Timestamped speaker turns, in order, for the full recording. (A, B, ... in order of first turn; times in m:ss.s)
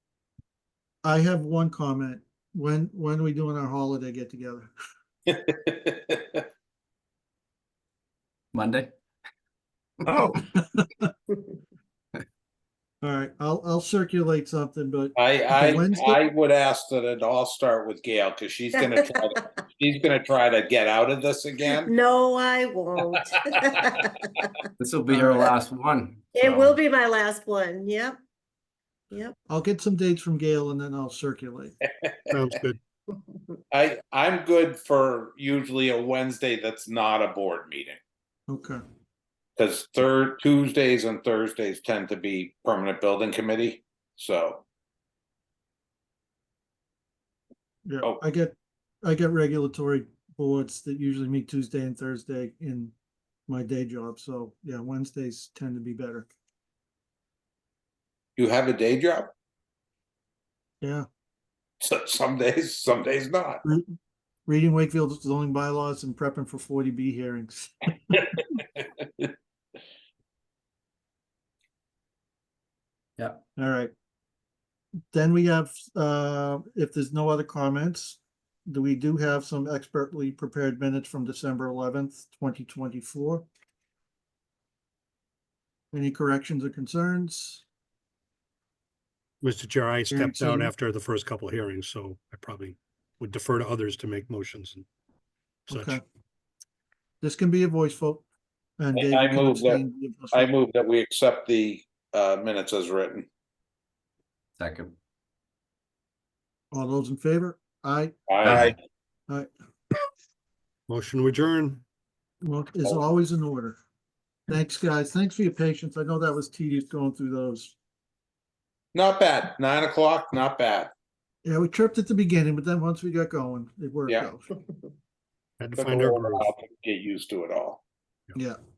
0:01.0-0:04.7 A
0:05.3-0:06.4 B
0:08.5-0:08.9 C
0:10.0-0:10.4 C
0:10.5-0:11.1 A
0:13.0-0:16.3 A
0:15.2-0:21.9 B
0:18.8-0:19.4 D
0:21.7-0:24.5 D
0:24.8-0:26.8 C
0:26.3-0:28.2 D
0:29.5-0:31.8 A
0:32.0-0:32.3 B
0:32.3-0:32.8 E
0:33.7-0:38.0 B
0:38.5-0:38.8 A
0:39.6-0:44.6 B
0:47.9-0:52.9 A
0:53.5-0:56.3 A
0:58.4-0:59.3 B
1:00.8-1:01.1 A
1:01.8-1:03.6 B
1:03.6-1:03.9 A
1:04.5-1:08.2 A
1:08.1-1:09.3 B
1:13.6-1:13.9 A
1:15.1-1:23.5 A
1:25.9-1:27.6 A
1:29.4-1:34.9 E
1:30.1-1:30.7 A
1:35.7-1:36.0 E
1:35.7-1:36.0 A
1:37.2-1:38.2 A
1:38.8-1:40.5 A
1:39.0-1:43.3 B
1:44.6-1:45.0 C
1:46.7-1:48.7 A
1:48.3-1:48.8 B
1:48.4-1:48.7 E
1:50.9-1:51.8 E
1:52.4-1:53.8 A
1:54.5-1:57.8 A
1:58.9-2:00.9 B
2:01.4-2:04.4 A
2:05.6-2:06.5 E
2:05.8-2:07.8 B